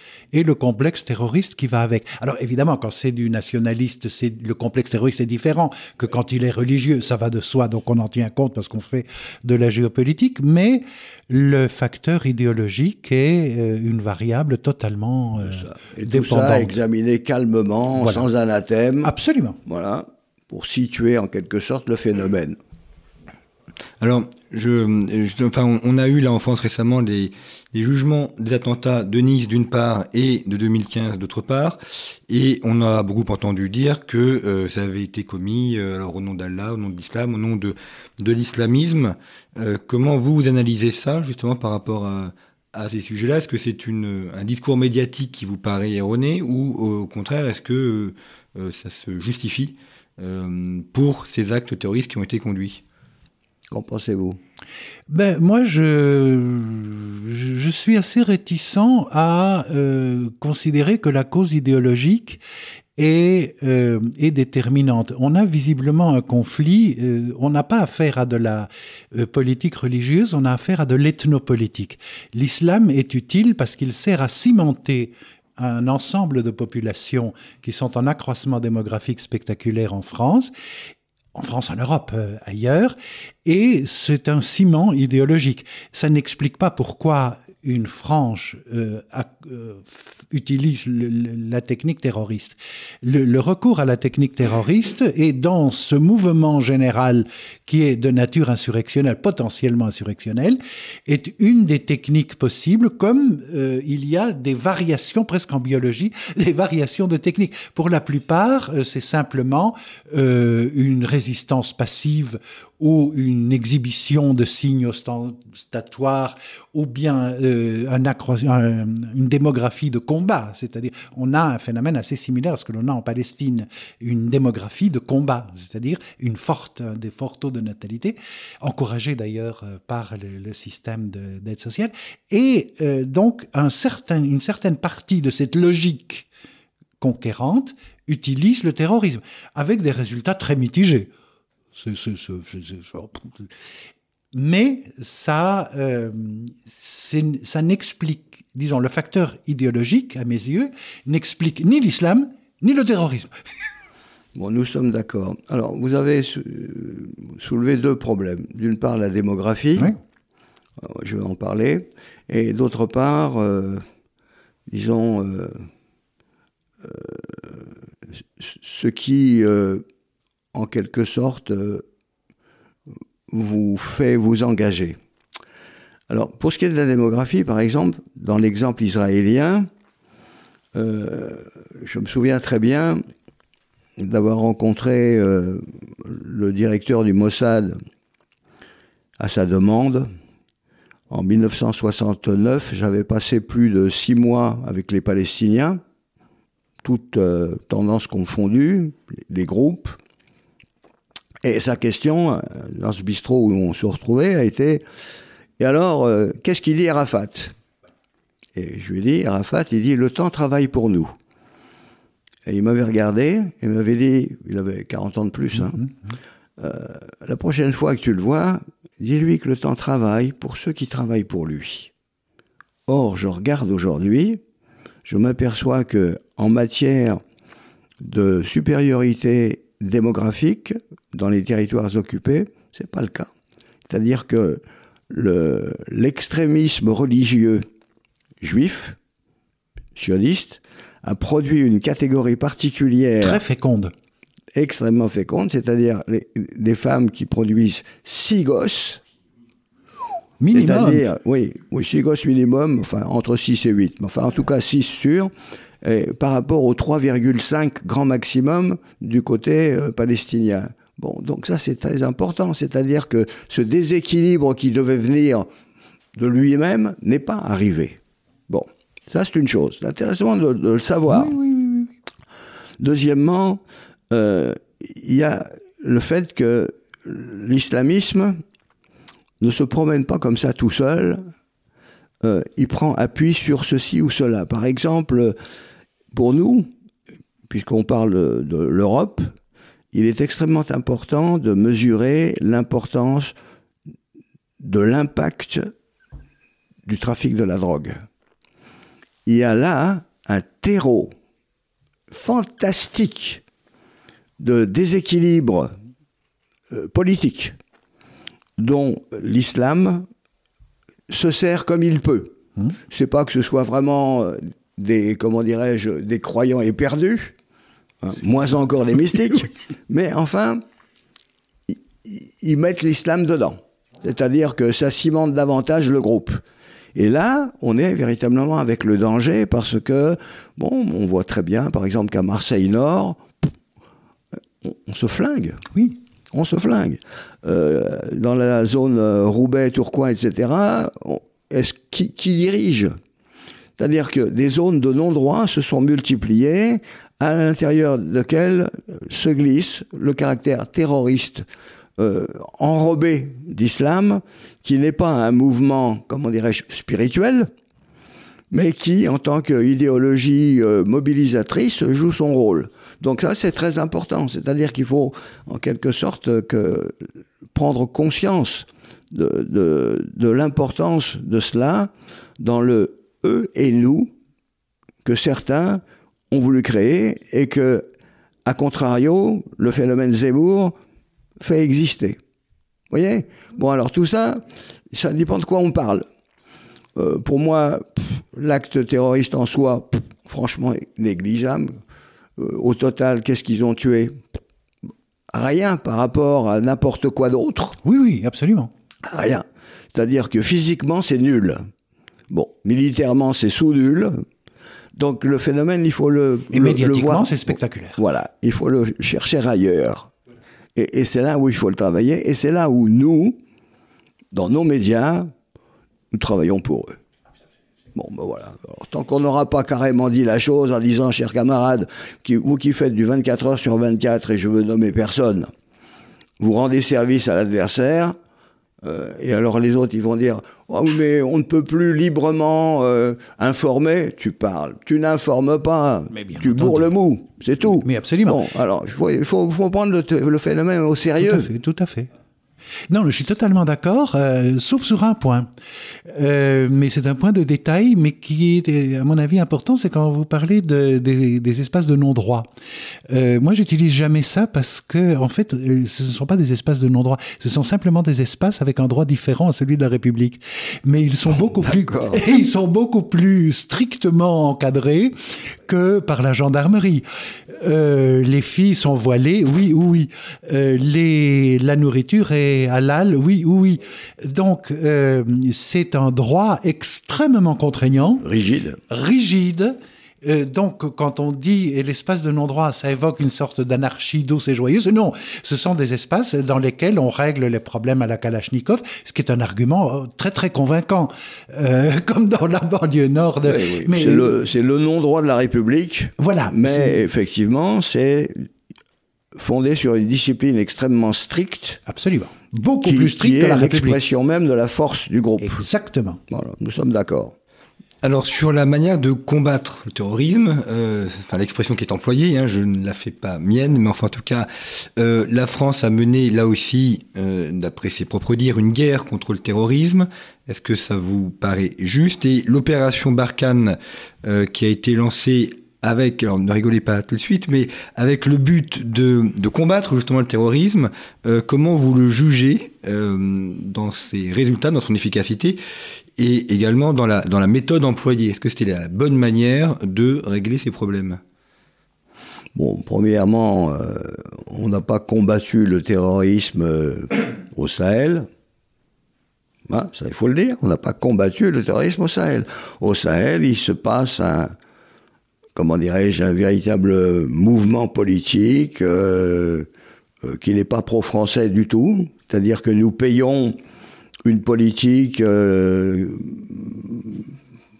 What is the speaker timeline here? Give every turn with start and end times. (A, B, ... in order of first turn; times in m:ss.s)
0:00.3-0:16.7 A
0:15.4-0:19.1 B
0:18.0-0:18.2 A
0:19.0-0:19.6 A
0:19.6-0:22.6 B
0:24.0-0:52.8 C
0:53.7-0:54.4 B
0:55.1-1:02.4 A
1:03.0-1:20.5 A
1:21.3-2:16.3 A
2:17.0-2:21.1 A
2:21.7-2:23.5 A
2:24.3-2:33.3 A
2:34.3-2:39.9 B
2:40.8-2:43.8 B
2:44.7-2:45.7 B
2:46.8-2:47.6 B
2:48.4-2:49.8 B
2:50.5-2:51.8 B
2:53.3-2:55.0 B
2:56.1-2:59.7 B
3:00.7-3:03.0 B
3:04.0-3:07.8 B
3:09.2-3:10.1 B
3:11.1-3:15.8 B
3:16.8-3:20.0 B
3:21.4-3:24.8 B
3:25.6-3:27.6 B
3:28.5-3:31.1 B
3:32.4-3:35.8 B
3:36.6-3:41.9 B
3:42.9-3:44.4 B
3:45.0-3:47.2 B
3:48.0-3:53.3 B
3:53.9-3:57.6 B
3:58.4-3:59.0 B
4:00.0-4:03.4 B
4:03.2-4:03.9 A
4:04.5-4:09.0 B
4:10.4-4:11.0 A
4:10.5-4:15.3 B
4:15.8-4:25.5 B
4:26.1-4:28.0 B
4:28.5-4:31.4 B
4:31.1-4:31.9 A
4:32.8-4:38.4 B
4:39.4-4:41.3 B
4:42.2-4:45.4 B
4:46.1-4:46.7 B
4:47.5-4:49.3 B
4:49.9-4:53.3 B
4:54.6-4:55.7 B
4:56.8-4:58.0 B
4:59.2-5:01.1 B
5:02.1-5:03.4 B
5:04.4-5:05.7 B
5:06.7-5:07.6 B
5:08.6-5:10.1 B
5:11.1-5:12.4 B
5:12.9-5:17.3 B
5:18.0-5:20.6 B
5:21.7-5:26.4 B
5:26.9-5:33.2 B
5:34.6-5:35.7 B
5:36.3-5:42.9 B
5:43.8-5:51.4 B
5:52.0-5:57.5 B
5:58.5-6:07.0 B
6:07.5-6:14.1 B
6:15.0-6:17.9 B
6:18.4-6:20.8 B
6:21.4-6:22.2 B
6:22.9-6:26.0 B
6:27.0-6:31.7 B
6:32.4-6:34.2 B
6:35.3-6:37.8 B
6:37.8-6:38.7 A
6:39.0-6:41.7 B
6:42.3-6:44.2 B
6:45.0-6:50.1 B
6:46.5-6:48.0 A
6:50.8-6:53.4 B
6:54.3-6:55.3 B
6:56.1-6:57.0 B
6:57.9-7:05.5 B
7:06.4-7:08.2 B
7:08.8-7:21.5 B
7:16.3-7:16.9 A
7:17.8-7:18.4 A
7:21.2-7:22.1 A
7:22.9-7:32.5 A
7:33.1-7:58.2 A
7:41.6-7:42.2 B
7:58.2-7:58.8 B
7:58.9-8:14.3 A
8:13.4-8:18.5 B
8:16.2-8:17.0 A
8:19.3-8:21.8 B
8:21.9-8:24.0 A
8:22.8-8:25.6 B
8:25.4-8:26.2 A
8:26.3-8:27.3 B
8:28.0-8:55.6 C
8:56.2-9:01.2 C
9:02.5-9:08.3 B
9:09.7-9:14.5 B
9:15.6-9:19.7 B
9:20.2-9:23.6 B
9:24.2-9:27.2 B